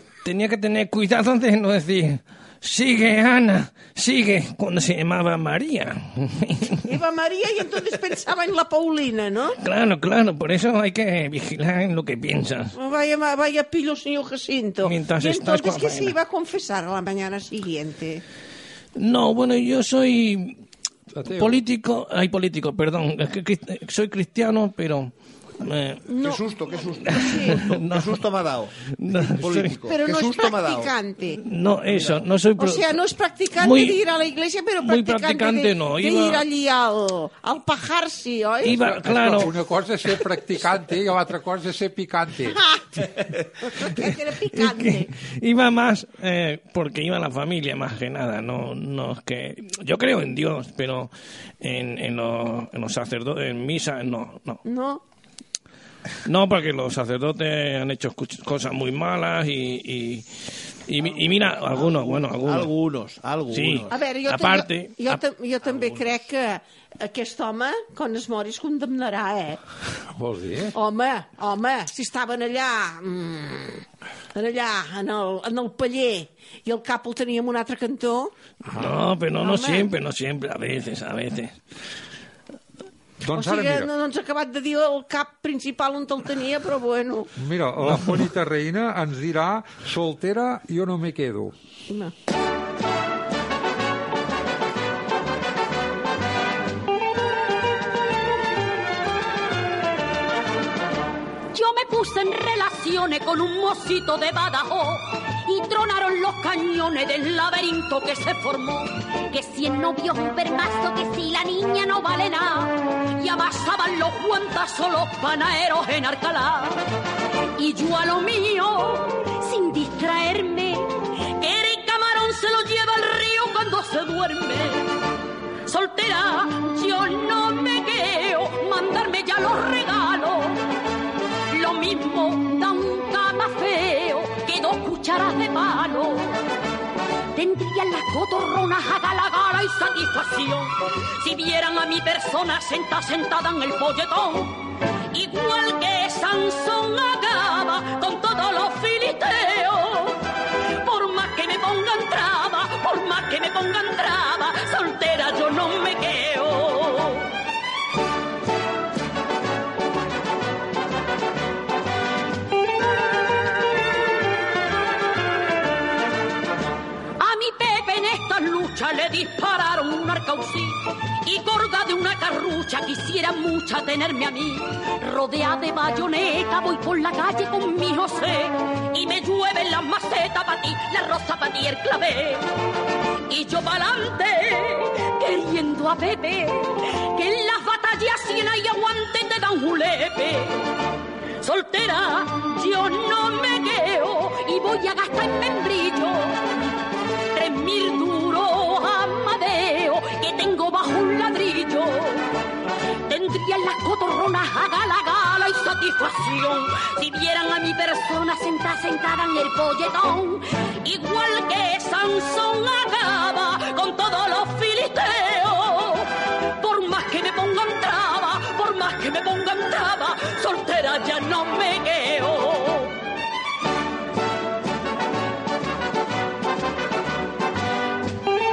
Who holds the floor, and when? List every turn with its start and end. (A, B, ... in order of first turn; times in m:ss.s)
0:00.2-0:06.8 A
0:06.8-0:09.6 B
0:09.6-0:12.7 A
0:12.8-0:18.2 B
0:14.8-0:16.2 A
0:19.0-0:20.6 A
0:21.1-0:21.6 C
0:21.4-0:26.0 A
0:26.1-0:26.4 B
0:26.2-0:30.9 D
0:27.0-0:28.2 A
0:27.2-0:27.6 B
0:29.0-0:29.8 A
0:29.9-0:31.4 B
0:31.4-0:33.0 A
0:31.9-0:32.2 D
0:32.6-0:39.4 B
0:33.6-0:34.0 A
0:34.8-0:36.4 A
0:38.6-0:39.5 A
0:39.0-0:42.6 C
0:42.5-0:45.1 B
0:44.5-0:54.6 A
0:54.7-0:55.0 B
0:56.2-1:02.7 A
1:01.0-1:04.0 D
1:03.5-1:05.2 A
1:03.9-1:09.6 B
1:05.6-1:06.2 D
1:10.1-1:10.8 C
1:10.8-1:13.8 B
1:14.4-1:18.3 B
1:18.7-1:21.6 A
1:19.4-1:19.9 B
1:23.2-1:23.9 C
1:23.3-1:27.3 B
1:27.4-1:31.6 C
1:41.5-1:56.8 E
1:57.6-2:04.9 E
2:05.7-2:10.6 E
2:11.5-2:16.4 E
2:17.4-2:24.6 E
2:25.1-2:30.2 E
2:30.8-2:37.3 E
2:47.2-3:02.4 E
3:03.3-3:10.6 E
3:11.4-3:16.5 E
3:17.3-3:22.3 E
3:23.1-3:43.0 E